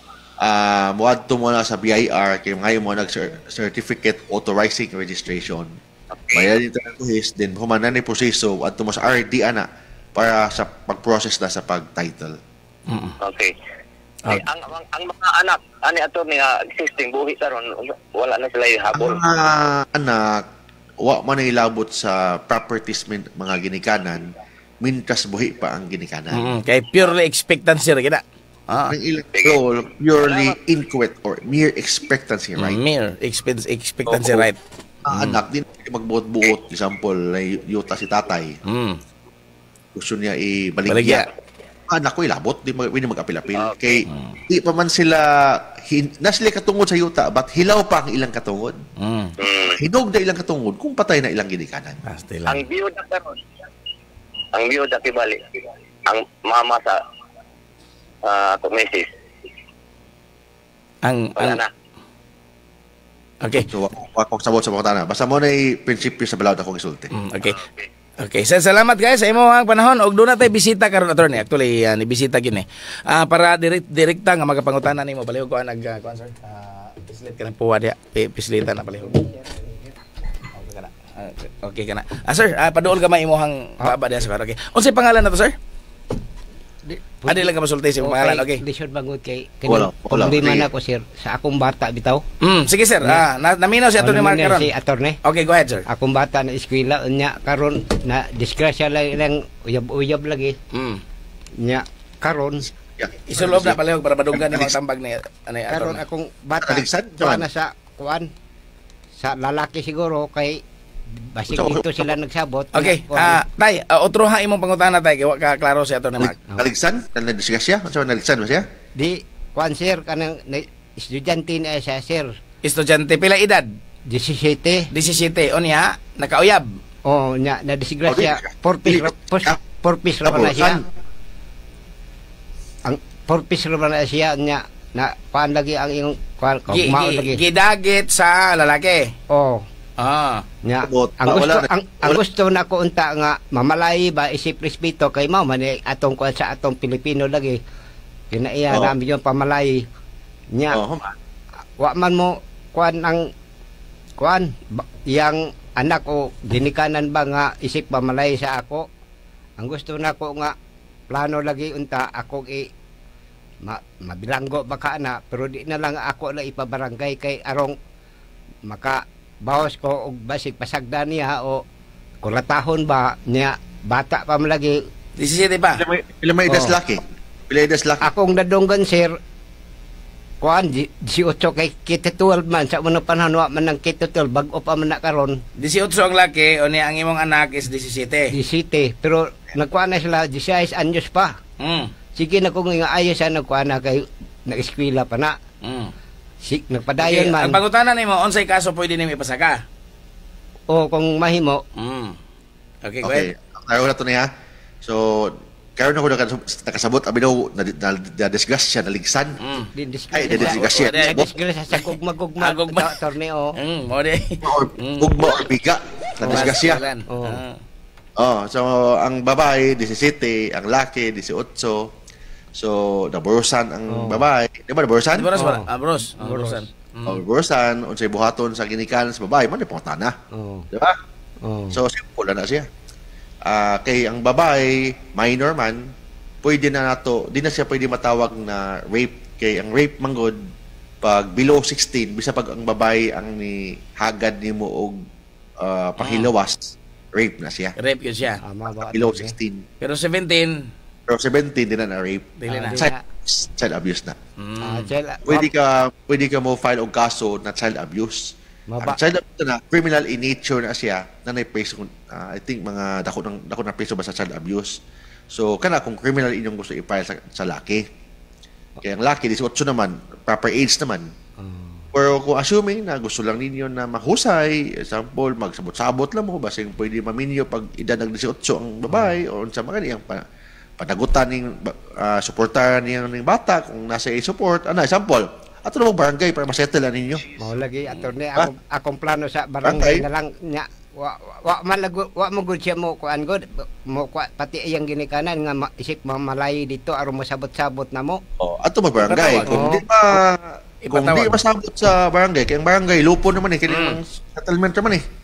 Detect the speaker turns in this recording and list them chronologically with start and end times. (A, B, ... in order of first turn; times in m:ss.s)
0:00.4-0:05.8 A
0:06.1-0:06.5 B
0:06.3-0:12.4 A
0:12.9-0:13.2 C
0:13.2-0:13.5 B
0:14.3-0:19.2 B
0:19.0-0:20.5 A
0:21.0-0:26.5 A
0:26.3-0:29.0 C
0:28.9-0:32.8 A
0:29.3-0:29.6 B
0:30.2-0:30.6 B
0:32.6-0:34.6 C
0:34.1-0:34.5 A
0:35.1-0:38.6 A
0:35.1-0:35.4 C
0:38.6-0:39.0 C
0:40.0-0:41.2 A
0:40.9-0:41.2 C
0:41.9-0:48.8 A
0:43.6-0:44.0 B
0:44.1-0:44.4 C
0:49.0-0:49.4 C
0:49.4-0:49.8 B
0:49.6-0:52.0 A
0:52.0-0:52.7 C
0:52.5-0:53.4 B
0:54.5-0:55.4 B
0:56.1-0:57.0 B
0:58.2-0:59.1 B
1:01.0-1:01.6 C
1:01.4-1:01.7 B
1:03.4-1:03.7 C
1:03.6-1:07.1 A
1:07.1-1:07.6 C
1:07.4-1:07.9 B
1:08.2-1:19.3 C
1:19.1-1:19.9 D
1:20.6-1:25.6 C
1:26.9-1:32.2 D
1:27.3-1:28.6 C
1:29.7-1:30.7 A
1:32.4-1:34.7 C
1:34.0-1:35.2 D
1:35.2-1:35.8 C
1:35.9-1:40.6 D
1:40.7-1:41.0 C
1:41.6-1:42.7 D
1:42.8-1:43.8 A
1:43.3-1:46.0 C
1:44.3-1:44.8 A
1:45.7-1:48.3 D
1:46.6-1:47.5 A
1:49.2-1:50.6 D
1:51.3-1:53.4 D
1:51.5-1:52.1 A
1:52.7-1:56.4 C
1:56.2-1:58.6 A
1:59.0-2:02.4 D
2:02.6-2:03.7 C
2:04.1-2:04.9 D
2:04.9-2:06.6 C
2:07.1-2:10.8 D
2:08.1-2:09.6 A
2:10.2-2:10.8 A
2:12.8-2:17.4 D
2:16.7-2:19.1 C
2:19.3-2:19.6 D
2:20.0-2:20.4 C
2:20.6-2:27.6 D
2:20.8-2:22.2 A
2:28.3-2:29.8 D
2:28.7-2:29.0 A
2:30.6-2:30.8 D
2:30.7-2:31.2 A
2:31.8-2:33.3 D
2:34.2-2:38.9 D
2:39.6-2:40.5 D
2:41.1-2:42.7 D
2:43.6-2:47.8 D
2:48.7-2:51.6 D
2:52.2-2:54.8 D
2:55.2-2:55.8 C
2:55.8-2:58.1 A
2:56.5-2:56.8 D
2:58.0-2:59.1 D
3:00.4-3:05.4 D
3:05.6-3:08.3 C
3:08.3-3:11.4 D
3:11.6-3:11.9 C
3:12.2-3:15.4 D
3:15.6-3:15.9 C
3:16.5-3:17.6 D
3:17.0-3:19.6 C
3:20.7-3:21.6 D
3:21.8-3:22.2 C
3:22.8-3:23.3 C
3:23.0-3:24.3 A
3:24.8-3:29.4 A
3:29.4-3:29.7 C
3:29.8-3:33.6 D
3:30.1-3:31.3 A
3:30.3-3:31.2 C
3:31.7-3:33.0 C
3:33.6-3:35.1 C
3:34.4-3:36.8 A
3:36.2-3:36.6 D
3:36.2-3:37.6 C
3:37.1-3:37.4 D
3:38.2-3:41.9 A
3:42.5-3:45.3 A
3:43.9-3:44.2 D
3:45.1-3:47.2 C
3:45.4-3:46.7 D
3:47.1-3:50.2 A
3:50.3-3:50.7 D
3:51.4-3:51.8 D
3:51.7-3:52.7 A
3:53.4-3:55.8 A
3:56.4-4:00.4 A
4:01.0-4:05.0 A
4:05.6-4:07.8 A
4:06.0-4:06.3 C
4:07.8-4:08.4 C
4:08.4-4:09.3 D
4:08.7-4:09.7 A
4:09.8-4:10.7 C
4:11.1-4:14.2 A
4:12.4-4:12.8 C
4:12.5-4:13.0 D
4:14.4-4:14.9 C
4:14.6-4:15.5 D
4:15.2-4:24.7 A
4:18.7-4:19.0 D
4:25.3-4:27.8 A
4:28.8-4:31.1 A
4:31.4-4:31.9 D
4:31.9-4:40.2 A
4:40.8-4:47.2 A
4:47.4-4:58.2 D
4:49.6-4:50.0 A
4:58.4-5:05.0 A
4:59.0-4:59.7 C
4:59.4-4:59.8 D
5:00.8-5:01.4 C
5:03.7-5:04.0 C